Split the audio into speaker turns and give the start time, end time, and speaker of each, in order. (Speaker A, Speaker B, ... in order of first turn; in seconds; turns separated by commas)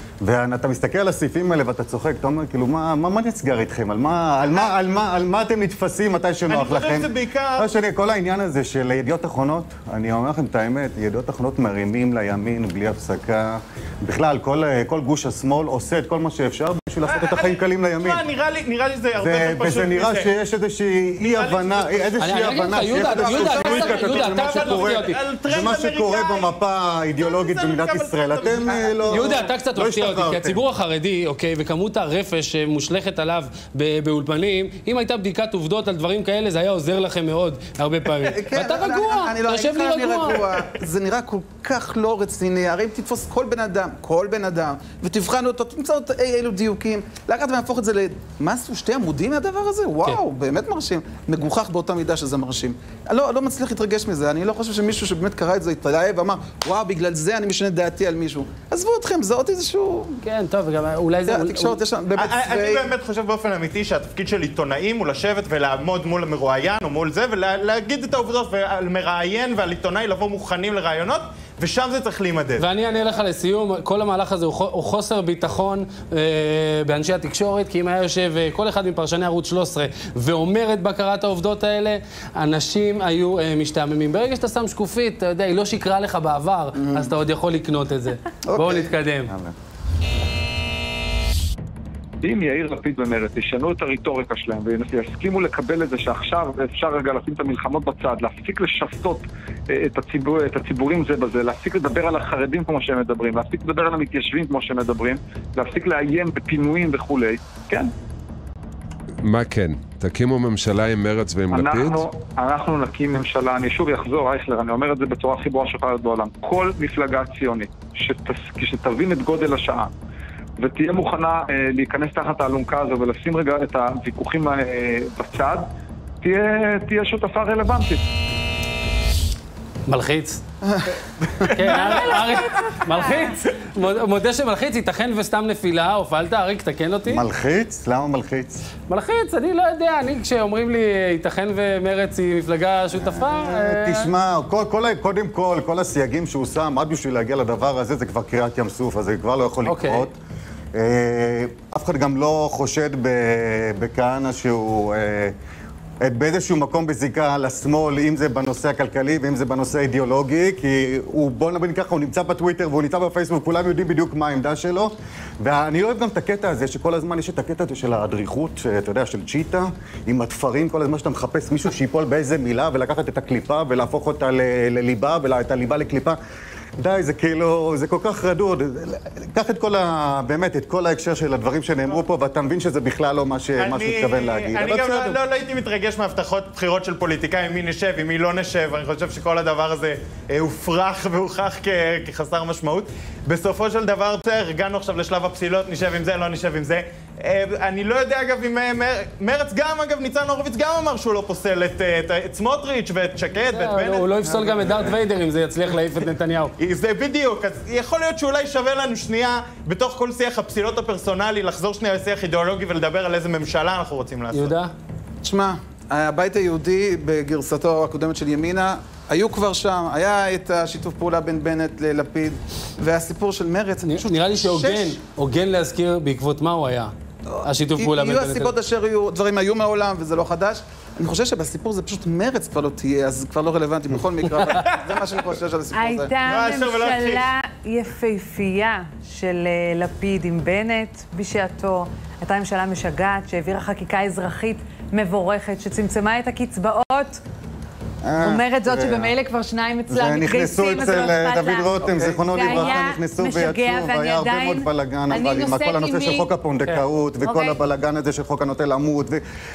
Speaker A: 0.2-18.2, Speaker B: 6.5-7.7, Speaker B: 17.1-20.3, Speaker A: 19.2-30.6, Speaker B: 21.2-22.5, Speaker C: 22.2-25.1, Speaker D: 22.9-23.9, Speaker B: 23.4-26.5, Speaker B: 27.2-29.1, Speaker C: 29.1-40.4, Speaker D: 38.2-60.2, Speaker C: 60.2-61.8, Speaker D: 61.2-62.9, Speaker B: 62.1-72.7, Speaker C: 72.6-89.3, Speaker D: 86.8-87.1, Speaker D: 88.5-88.9, Speaker A: 89.3-89.5, Speaker E: 92.2-107.9, Speaker F: 109.2-112.0, Speaker E: 111.5-119.9, Speaker E: 120.6-125.7, Speaker E: 126.2-128.1, Speaker C: 129.9-130.4, Speaker D: 130.7-131.9, Speaker C: 131.5-137.2, Speaker G: 131.6-133.4, Speaker A: 137.1-138.6, Speaker C: 138.9-144.1, Speaker A: 142.9-150.2, Speaker C: 149.6-150.1, Speaker A: 150.7-155.3, Speaker A: 156.0-176.2, Speaker A: 176.8-185.2, Speaker B: 183.6-204.1, Speaker C: 203.5-206.5, Speaker D: 204.2-204.9, Speaker B: 206.6-214.5, Speaker C: 214.3-214.7, Speaker D: 215.2-225.0, Speaker C: 223.9-226.9, Speaker D: 227.3-236.1, Speaker C: 227.4-228.5, Speaker G: 235.7-247.2, Speaker B: 236.2-237.2, Speaker A: 248.0-249.1, Speaker G: 248.2-256.3, Speaker A: 249.9-259.2, Speaker C: 251.8-252.8, Speaker G: 257.2-257.6